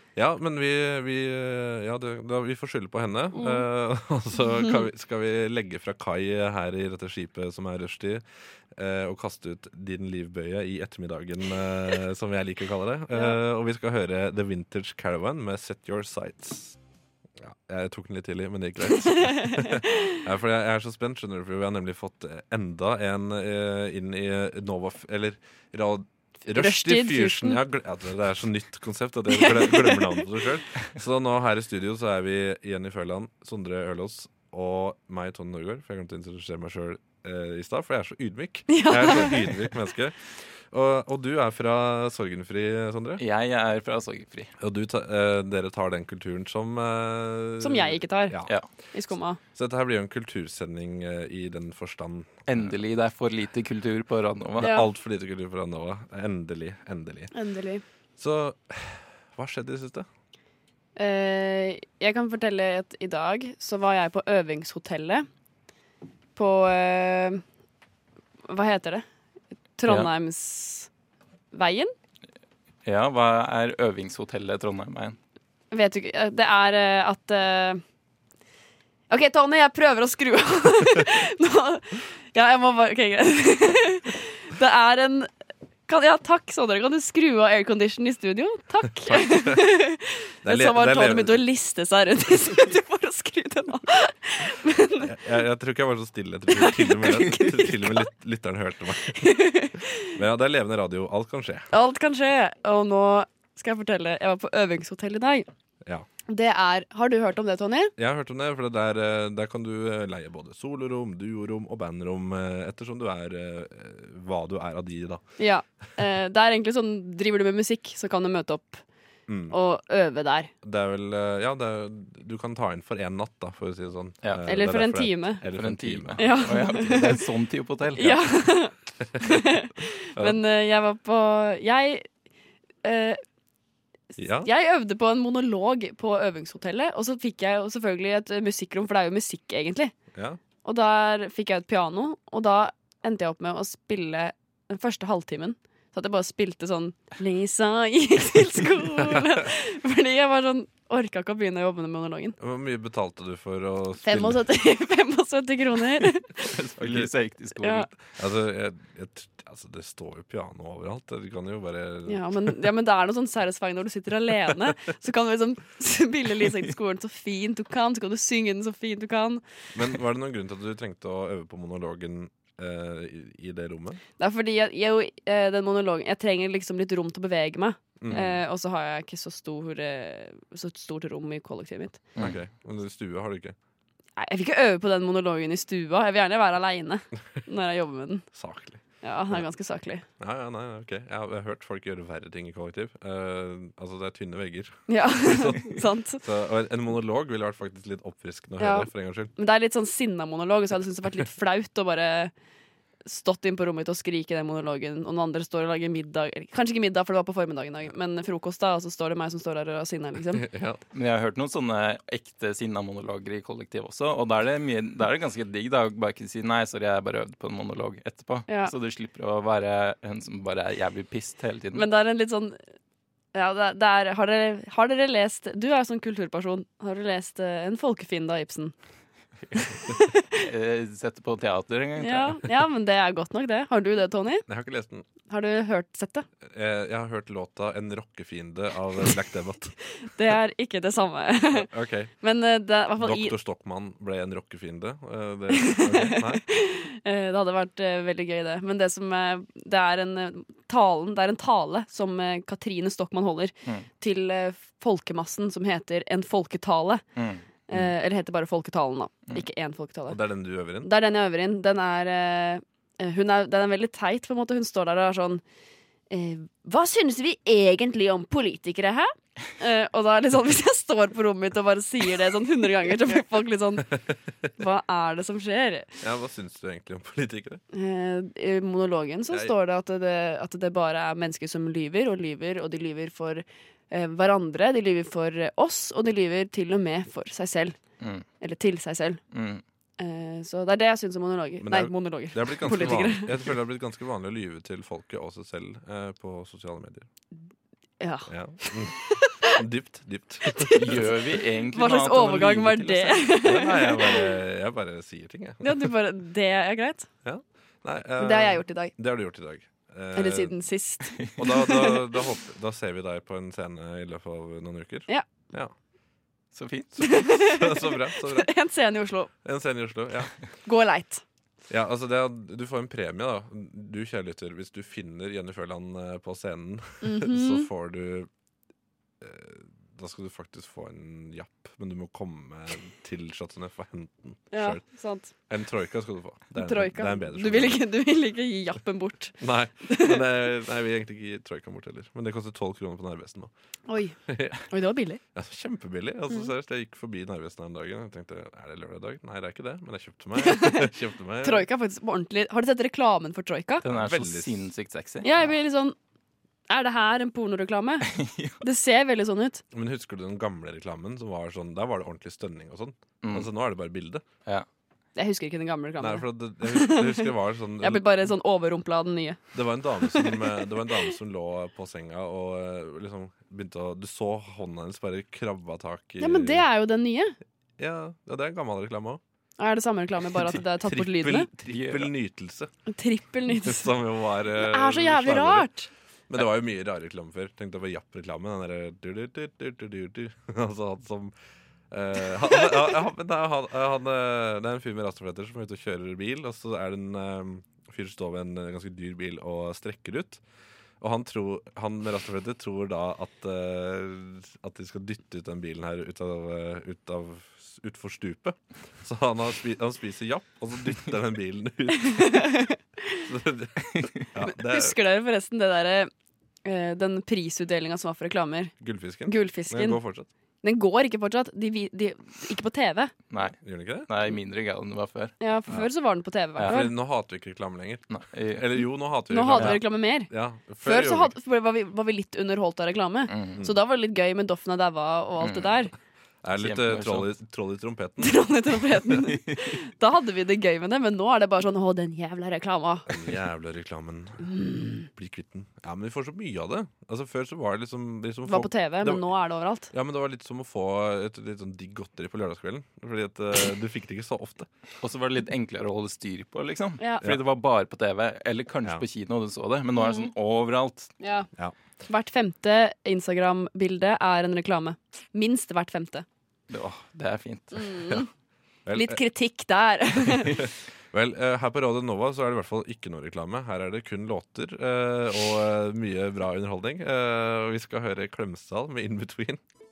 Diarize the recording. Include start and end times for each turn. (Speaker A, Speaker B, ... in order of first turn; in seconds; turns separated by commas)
Speaker A: 0.1-16.8, Speaker B: 3.3-3.6, Speaker A: 17.4-43.2, Speaker B: 19.0-20.1, Speaker B: 26.5-27.6, Speaker B: 29.3-30.2, Speaker B: 38.7-39.5, Speaker C: 43.2-44.5, Speaker A: 44.6-48.5, Speaker B: 47.6-48.4, Speaker B: 48.9-49.4, Speaker A: 49.5-52.7, Speaker C: 52.5-54.8, Speaker A: 54.6-57.3, Speaker B: 54.6-54.9, Speaker B: 57.3-57.8, Speaker A: 58.2-60.1, Speaker B: 61.0-65.2, Speaker B: 66.3-67.4, Speaker B: 68.5-69.0, Speaker B: 69.8-70.9, Speaker B: 71.5-71.9, Speaker C: 72.8-75.2, Speaker B: 75.7-77.8, Speaker B: 79.1-85.3, Speaker B: 85.9-95.1, Speaker A: 89.1-89.6, Speaker A: 90.4-91.4, Speaker A: 95.0-99.2, Speaker B: 96.5-98.1, Speaker B: 99.1-100.0, Speaker A: 100.1-101.7, Speaker B: 101.7-105.5, Speaker B: 106.3-107.9, Speaker A: 108.0-115.2, Speaker B: 115.4-118.8, Speaker A: 119.3-119.5, Speaker B: 119.5-120.5, Speaker A: 120.6-126.8, Speaker B: 124.5-125.4, Speaker C: 125.6-128.1, Speaker B: 126.2-127.2, Speaker B: 128.0-132.1, Speaker B: 132.8-133.2, Speaker B: 134.1-139.9, Speaker A: 134.2-134.5, Speaker A: 140.1-140.4, Speaker B: 140.6-152.3, Speaker A: 149.0-149.5, Speaker A: 152.4-154.4, Speaker B: 154.0-156.5, Speaker C: 156.4-157.9, Speaker A: 156.8-157.1, Speaker B: 157.6-157.9, Speaker A: 158.2-162.5, Speaker B: 162.1-169.4, Speaker A: 169.7-174.0, Speaker B: 174.2-182.0, Speaker A: 178.0-178.3, Speaker A: 182.2-183.6, Speaker B: 184.2-188.2, Speaker A: 188.3-189.4, Speaker B: 189.0-190.0, Speaker A: 190.2-199.3, Speaker B: 194.9-196.2, Speaker B: 198.6-202.3, Speaker B: 203.0-210.4, Speaker A: 210.3-210.8, Speaker C: 210.9-221.8, Speaker B: 218.5-218.7, Speaker B: 221.7-222.6, Speaker B: 223.3-228.7, Speaker B: 229.5-230.4, Speaker C: 230.4-232.5, Speaker B: 232.0-234.4, Speaker A: 234.5-235.0, Speaker B: 235.3-236.2, Speaker A: 236.4-239.7, Speaker B: 240.0-241.7, Speaker A: 241.5-242.1, Speaker B: 242.2-243.3, Speaker A: 243.0-246.4, Speaker B: 245.5-257.0, Speaker C: 257.1-257.4, Speaker B: 257.7-260.2, Speaker A: 260.1-260.9, Speaker B: 260.8-265.4, Speaker B: 266.1-273.9, Speaker B: 274.6-275.9, Speaker A: 276.0-277.6, Speaker B: 277.7-287.8, Speaker B: 288.4-289.2, Speaker C: 289.3-289.6, Speaker B: 290.0-293.4, Speaker A: 291.6-297.1, Speaker B: 298.0-299.6, Speaker A: 298.3-301.1, Speaker B: 300.4-300.8, Speaker C: 300.7-303.3, Speaker B: 301.7-304.3, Speaker A: 303.4-305.9, Speaker B: 305.6-307.1, Speaker A: 307.2-310.6, Speaker B: 308.2-308.9, Speaker B: 310.1-312.0, Speaker A: 311.4-315.7, Speaker C: 316.5-316.9, Speaker A: 317.0-318.5, Speaker B: 317.0-319.3, Speaker A: 319.4-320.3, Speaker B: 320.6-321.2, Speaker A: 321.7-328.3, Speaker B: 327.0-327.7, Speaker A: 329.2-334.8, Speaker B: 334.5-335.3, Speaker A: 335.5-337.8, Speaker B: 336.5-339.3, Speaker A: 339.4-343.5, Speaker B: 339.9-340.2, Speaker B: 343.9-344.2, Speaker A: 344.3-344.6, Speaker B: 344.7-345.2, Speaker A: 345.3-351.6, Speaker B: 350.4-350.9, Speaker B: 351.4-353.8, Speaker C: 353.8-355.4, Speaker A: 353.8-354.6, Speaker B: 355.2-355.9, Speaker B: 356.7-358.1, Speaker C: 358.1-358.6, Speaker B: 358.6-359.6, Speaker A: 359.7-364.2, Speaker C: 363.2-363.5, Speaker B: 365.1-369.4, Speaker A: 366.0-368.3, Speaker A: 369.5-376.6, Speaker B: 370.0-370.9, Speaker B: 376.2-377.4, Speaker A: 377.8-379.2, Speaker B: 379.6-381.5, Speaker A: 380.5-382.7, Speaker C: 381.6-382.1, Speaker B: 382.9-383.9, Speaker A: 383.6-385.7, Speaker B: 384.5-385.9, Speaker A: 386.3-391.3, Speaker A: 391.9-400.4, Speaker A: 401.0-412.4, Speaker B: 412.0-413.2, Speaker A: 413.3-414.9, Speaker C: 413.9-414.2, Speaker B: 414.4-416.1, Speaker B: 416.6-418.7, Speaker A: 418.8-420.3, Speaker B: 419.3-420.0, Speaker B: 420.6-423.1, Speaker C: 423.3-425.3, Speaker A: 423.6-424.1, Speaker B: 425.4-426.9, Speaker A: 426.6-431.3, Speaker C: 428.1-428.8, Speaker B: 429.3-430.3, Speaker B: 430.8-435.9, Speaker C: 433.3-433.6, Speaker C: 435.4-435.7, Speaker A: 436.4-438.4, Speaker C: 436.6-437.3, Speaker B: 438.2-443.1, Speaker A: 443.1-444.5, Speaker B: 444.4-445.1, Speaker A: 445.1-449.3, Speaker B: 448.4-449.9, Speaker A: 449.9-454.7, Speaker C: 455.0-461.1, Speaker B: 457.0-457.2, Speaker B: 460.0-460.3, Speaker B: 461.2-461.5, Speaker B: 462.1-466.2, Speaker C: 466.7-468.1, Speaker B: 467.7-468.3, Speaker A: 468.9-469.2, Speaker B: 468.9-470.6, Speaker A: 470.6-479.6